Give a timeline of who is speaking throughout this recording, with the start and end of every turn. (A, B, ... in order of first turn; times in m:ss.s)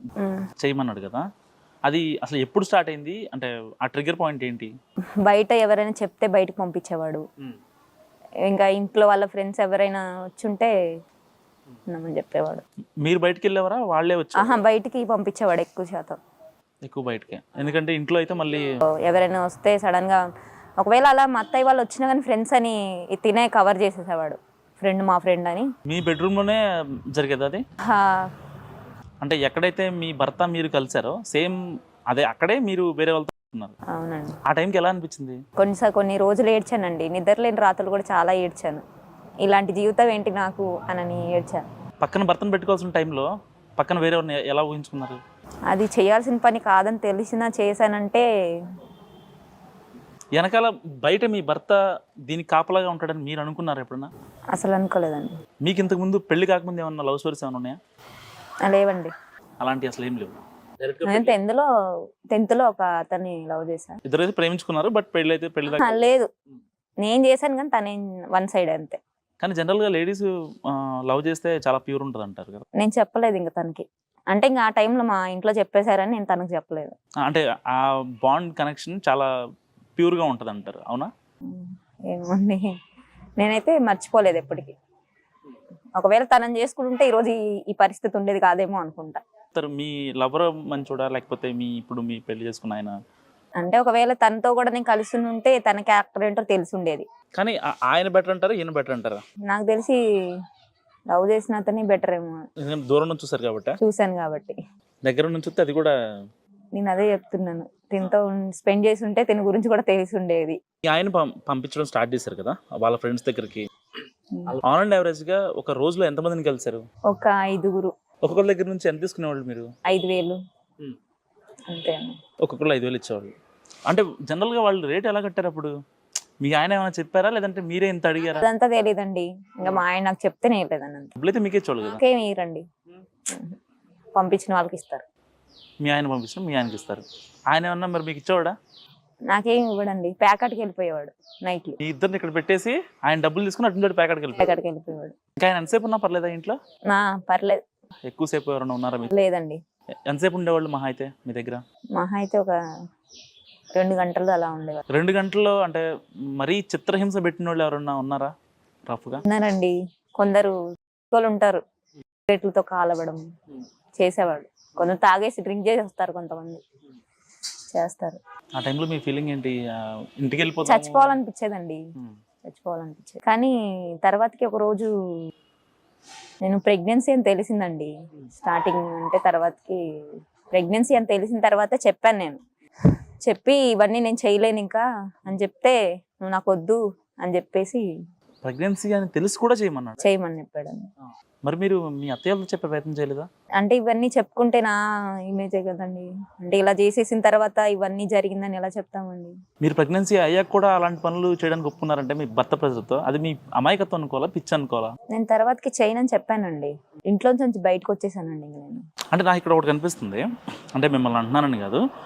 0:00.2-0:00.5 A
0:00.6-0:01.2 B
0:01.8-0:04.7 B
0:05.2-0:07.2 A
0:08.4-0:10.7 A
0:11.9-0:12.6 A
0:13.0-0:14.6 B
0:14.3-0:16.2 A
0:16.8-0:18.7 B
0:18.9-0:20.2 A
0:20.8-0:25.7 A
0:25.8-0:27.6 B
0:27.9-0:28.3 A
0:29.2-0:31.6 B
0:32.1-0:33.8 B
0:33.9-0:34.4 A
0:34.4-0:35.4 B
0:35.6-0:38.8 A
0:39.4-0:41.6 A
0:42.0-0:45.2 B
0:45.7-0:48.2 A
0:50.4-0:51.8 B
0:52.3-0:54.1 B
0:54.5-0:55.3 A
0:55.6-0:57.8 B
0:58.6-0:59.1 A
0:59.6-1:01.4 B
1:01.0-1:01.7 A
1:02.3-1:04.0 A
1:04.0-1:06.0 B
1:05.7-1:06.3 A
1:07.0-1:09.0 A
1:09.4-1:12.6 B
1:12.8-1:16.9 A
1:17.2-1:19.3 B
1:20.0-1:21.1 B
1:21.5-1:22.7 A
1:23.4-1:24.8 A
1:26.0-1:29.2 A
1:29.5-1:32.9 B
1:33.6-1:37.0 A
1:37.3-1:39.2 B
1:39.5-1:40.0 A
1:41.1-1:42.4 A
1:42.6-1:43.8 B
1:43.8-1:44.6 A
1:45.0-1:45.9 B
1:46.7-1:50.6 A
1:50.8-1:53.7 B
1:54.3-1:54.6 A
1:54.5-1:56.8 B
1:57.1-1:57.9 A
1:58.2-1:59.7 B
1:59.9-2:00.4 A
2:01.7-2:02.2 A
2:02.4-2:03.3 B
2:03.9-2:05.7 B
2:06.4-2:08.4 B
2:08.4-2:11.1 A
2:11.2-2:12.0 B
2:11.8-2:12.6 A
2:13.3-2:13.6 A
2:14.1-2:15.0 A
2:15.8-2:18.5 B
2:19.3-2:21.8 A
2:21.8-2:24.5 B
2:24.4-2:25.1 A
2:25.4-2:26.6 B
2:26.9-2:27.6 A
2:28.0-2:29.1 B
2:29.1-2:29.6 A
2:30.1-2:31.6 B
2:31.9-2:32.6 A
2:33.7-2:34.8 A
2:34.9-2:35.8 B
2:36.4-2:38.3 B
2:38.9-2:39.2 B
2:39.2-2:40.6 A
2:41.1-2:41.6 A
2:42.3-2:43.2 A
2:44.0-2:46.6 A
2:47.7-2:48.2 A
2:48.6-2:49.6 B
2:50.2-2:51.2 B
2:50.6-2:51.8 A
2:52.5-2:53.5 A
2:54.0-2:54.9 A
2:56.4-2:59.8 A
3:00.5-3:02.4 A
3:03.2-3:07.8 A
3:08.4-3:10.0 B
3:10.0-3:10.9 A
3:11.4-3:13.3 B
3:13.6-3:14.8 A
3:15.3-3:19.4 A
3:19.6-3:24.9 B
3:25.1-3:28.8 A
3:29.1-3:31.8 B